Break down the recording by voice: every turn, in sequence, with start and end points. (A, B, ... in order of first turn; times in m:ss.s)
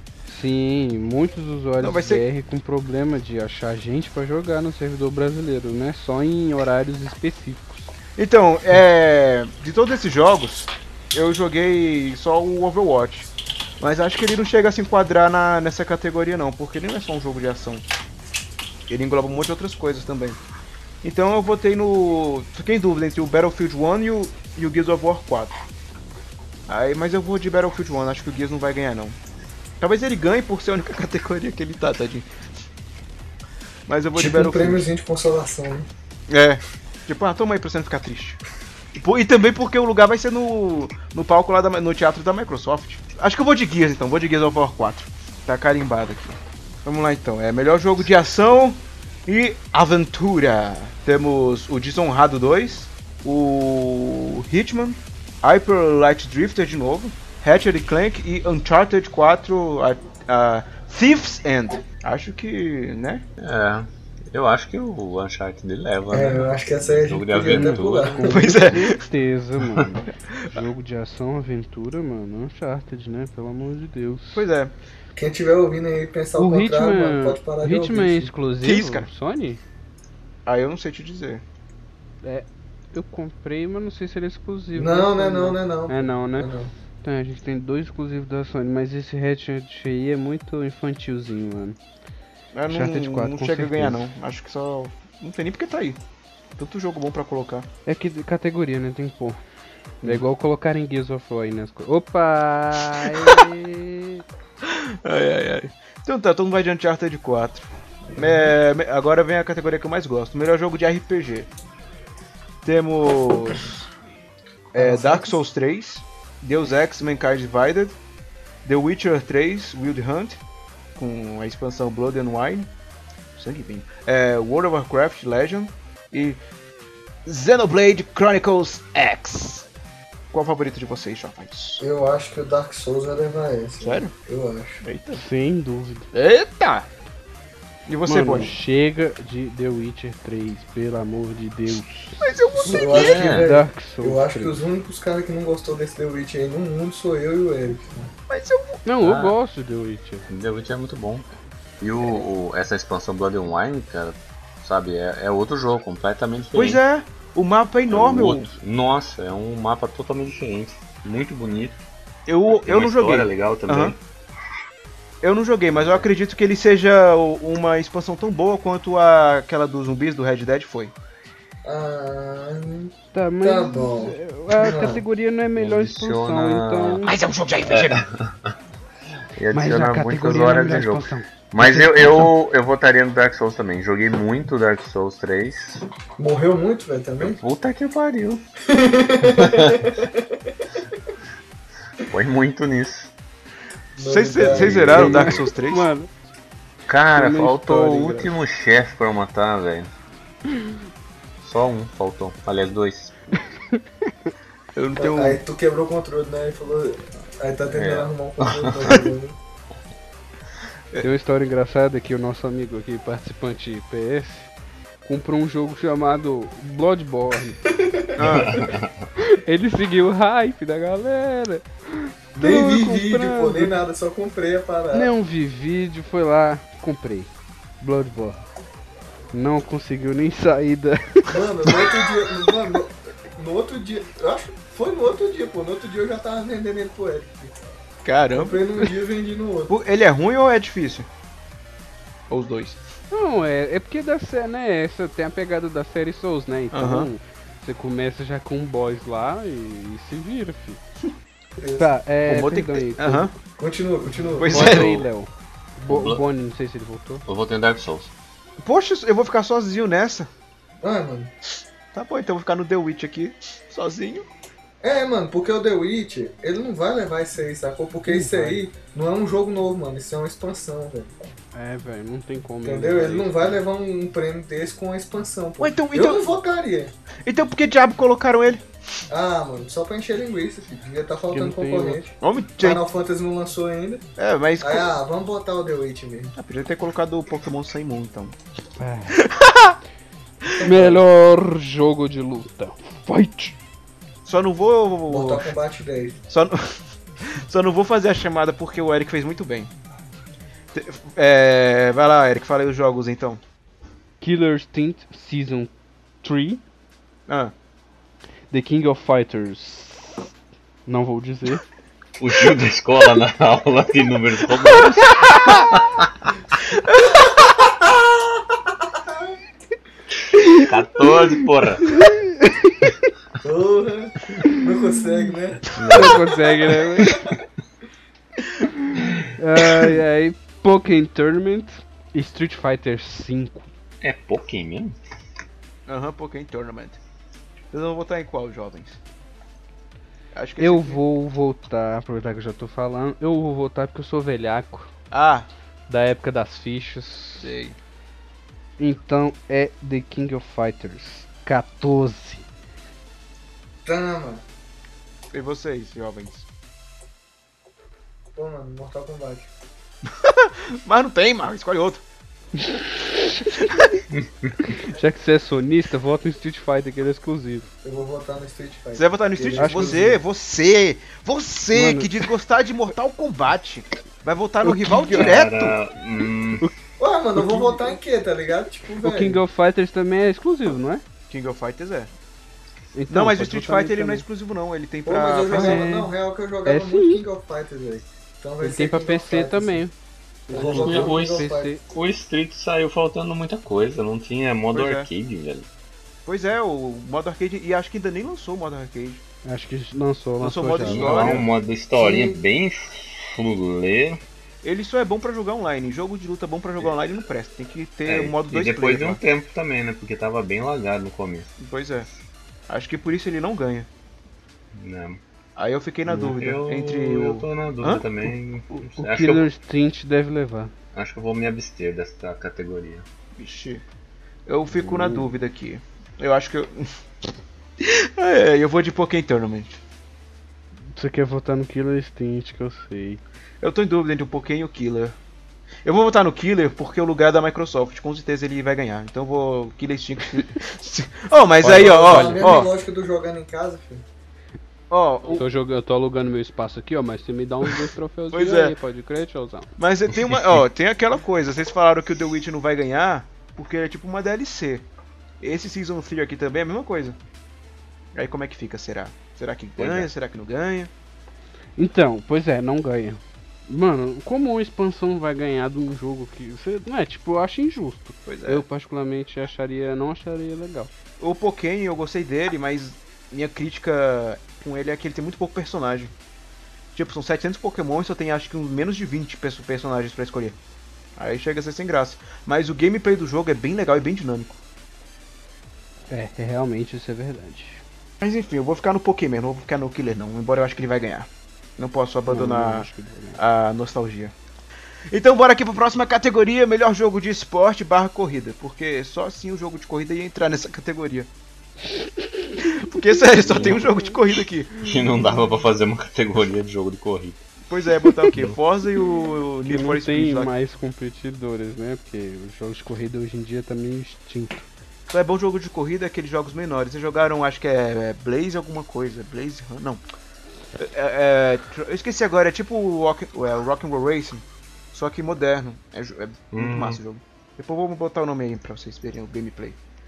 0:00.3-0:07.9 A
0:01.8-0:02.2 B
0:08.2-0:13.3 B
0:13.8-0:17.8 B
0:18.9-0:20.4 B
0:21.0-0:25.6 B
0:26.7-0:29.2 B
0:29.8-0:32.3 B
0:33.9-0:34.8 B
0:34.1-0:35.9 C
0:36.3-0:38.4 B
0:38.9-1:03.2 B
1:03.4-1:08.4 D
1:06.1-1:08.6 C
1:07.5-1:14.4 A
1:08.2-1:09.0 B
1:14.3-1:14.7 B
1:15.1-1:18.3 C
1:16.3-1:19.6 A
1:18.6-1:19.1 B
1:20.4-1:21.4 B
1:22.2-1:31.8 A
1:24.7-1:26.7 C
1:32.5-1:36.0 B
1:32.7-1:34.0 A
1:36.6-1:37.7 B
1:37.8-1:39.4 A
1:40.0-1:44.2 A
1:44.6-1:51.5 B
1:52.6-1:53.8 B
1:54.7-1:58.0 B
1:54.7-1:55.4 C
1:58.6-2:00.4 B
2:01.0-2:02.7 B
2:03.4-2:06.4 B
2:07.2-2:09.6 B
2:10.3-2:11.8 B
2:11.8-2:14.8 C
2:13.8-2:14.1 B
2:14.8-2:15.2 B
2:15.1-2:16.1 A
2:16.1-2:16.8 B
2:17.8-2:18.5 B
2:18.0-2:22.3 A
2:22.2-2:23.3 B
2:22.6-2:28.1 C
2:22.7-2:23.5 D
2:23.1-2:24.6 A
2:28.3-2:28.8 B
2:28.8-2:30.3 A
2:29.0-2:29.3 D
2:30.3-2:31.2 D
2:31.8-2:36.8 D
2:36.5-2:38.5 B
2:37.9-2:41.8 D
2:42.3-2:43.9 B
2:42.5-2:44.0 D
2:45.2-2:50.9 B
2:45.8-2:46.1 D
2:51.6-2:55.0 C
2:53.1-2:57.1 A
2:55.6-2:57.0 D
2:57.0-2:58.0 B
2:57.7-2:58.3 D
2:59.4-3:05.8 D
2:59.5-3:02.3 A
3:06.2-3:07.4 C
3:07.2-3:08.4 D
3:08.7-3:10.5 C
3:09.4-3:09.8 D
3:12.1-3:13.1 D
3:14.0-3:15.2 C
3:14.0-3:15.8 B
3:14.4-3:15.4 D
3:14.9-3:16.1 A
3:16.9-3:19.9 D
3:17.1-3:18.3 A
3:21.4-3:23.4 D
3:24.7-3:25.4 B
3:25.0-3:29.4 C
3:27.7-3:29.0 D
3:31.0-3:34.5 A
3:35.0-3:37.6 A
3:37.8-3:38.1 C
3:38.2-3:38.7 B
3:38.3-3:39.0 D
3:39.2-3:43.8 A
3:42.3-3:45.1 C
3:44.9-3:48.4 A
3:49.3-3:51.3 A
3:51.3-3:57.6 C
3:58.0-3:58.6 B
3:58.3-3:59.7 C
3:59.7-4:01.1 B
4:02.3-4:02.8 B
4:03.1-4:10.8 A
4:06.7-4:07.1 B
4:11.6-4:11.9 C
4:11.8-4:13.3 A
4:12.2-4:13.3 B
4:13.6-4:14.9 C
4:14.4-4:15.0 B
4:14.4-4:17.2 A
4:15.9-4:16.2 D
4:17.3-4:18.1 D
4:18.6-4:20.3 B
4:20.8-4:21.3 C
4:21.9-4:24.3 B
4:24.8-4:31.2 C
4:28.0-4:28.6 A
4:31.5-4:33.6 A
4:32.6-4:36.9 C
4:35.6-4:36.3 B
4:37.2-4:38.6 B
4:39.1-4:44.0 C
4:41.3-4:42.0 A
4:42.2-4:42.8 B
4:44.2-4:44.9 B
4:44.6-4:46.3 C
4:46.4-4:48.4 B
4:48.8-4:49.2 A
4:49.2-4:49.8 B
4:50.5-4:51.0 C
4:50.6-4:53.6 A
4:54.2-4:55.4 B
4:55.1-4:56.2 C
4:56.3-4:59.7 B
5:00.7-5:03.4 B
5:04.2-5:05.7 A
5:06.2-5:06.6 A
5:07.3-5:07.5 B
5:08.5-5:10.3 A
5:10.8-5:11.6 A
5:12.2-5:16.0 D
5:15.2-5:15.6 B
5:16.6-5:17.4 B
5:17.1-5:19.3 C
5:20.4-5:20.6 A
5:20.4-5:22.0 D
5:21.9-5:22.9 A
5:23.4-5:26.2 C
5:25.7-5:26.3 D
5:25.9-5:27.2 A
5:27.0-5:27.4 C
5:28.7-5:33.7 A
5:34.0-5:35.0 D
5:35.9-5:37.0 B
5:37.7-5:39.0 B
5:40.3-5:41.0 B
5:40.6-5:44.9 A
5:45.1-5:45.5 B
5:45.9-5:47.5 A
5:47.4-5:47.8 B
5:48.8-5:52.4 A
5:53.8-5:54.4 C
5:55.3-5:56.4 B
5:58.3-5:59.5 C
6:00.0-6:02.0 B
6:02.6-6:03.6 A
6:04.1-6:04.5 D
6:04.6-6:07.7 A
6:07.8-6:10.1 C
6:08.9-6:15.8 B
6:09.6-6:10.2 A
6:11.7-6:12.2 A
6:14.6-6:15.3 A
6:15.1-6:16.6 D
6:17.0-6:19.4 C
6:17.4-6:17.7 A
6:19.0-6:21.0 A
6:21.3-6:22.1 B
6:22.9-6:24.2 A
6:23.1-6:25.8 B
6:25.0-6:29.8 C
6:25.5-6:26.1 A
6:26.6-6:27.2 A
6:28.6-6:29.9 A
6:30.5-6:31.8 A
6:30.5-6:31.7 C
6:30.5-6:35.7 D
6:34.7-6:35.1 B
6:36.2-6:39.2 B
6:39.4-6:41.4 A
6:40.4-6:41.5 B
6:40.8-6:44.2 D
6:42.0-6:42.4 C
6:44.6-6:49.2 B
6:48.0-6:51.5 D
6:51.6-6:52.1 B
6:52.7-6:53.9 B
6:54.7-6:55.2 D
6:55.6-6:58.0 B
6:56.0-6:59.5 D
6:58.7-7:00.7 A
7:00.9-7:03.0 D
7:03.4-7:03.8 B
7:04.5-7:06.9 B
7:04.7-7:05.3 A
7:07.8-7:09.8 B
7:10.9-7:13.2 A
7:13.6-7:15.2 B
7:15.8-7:22.7 B
7:21.6-7:24.0 C
7:21.8-7:22.6 A
7:24.9-7:25.4 B
7:25.3-7:29.7 A
7:28.3-7:28.7 B
7:29.8-7:34.9 B
7:35.4-7:37.2 B
7:38.1-7:40.9 B
7:39.8-7:40.1 D
7:41.8-7:50.9 A
7:48.2-7:48.6 B
7:51.2-7:56.1 B
7:56.9-8:00.6 B
8:01.2-8:04.6 B
8:06.1-8:07.8 A
8:08.2-8:14.3 B
8:12.3-8:13.4 A
8:15.1-8:21.3 B
8:21.9-8:23.9 A
8:22.7-8:24.7 B
8:23.4-8:23.9 D
8:24.8-8:27.4 D
8:27.7-8:30.5 B
8:29.6-8:34.7 A
8:35.1-8:40.0 B
8:40.8-8:49.8 B
8:46.5-8:47.0 D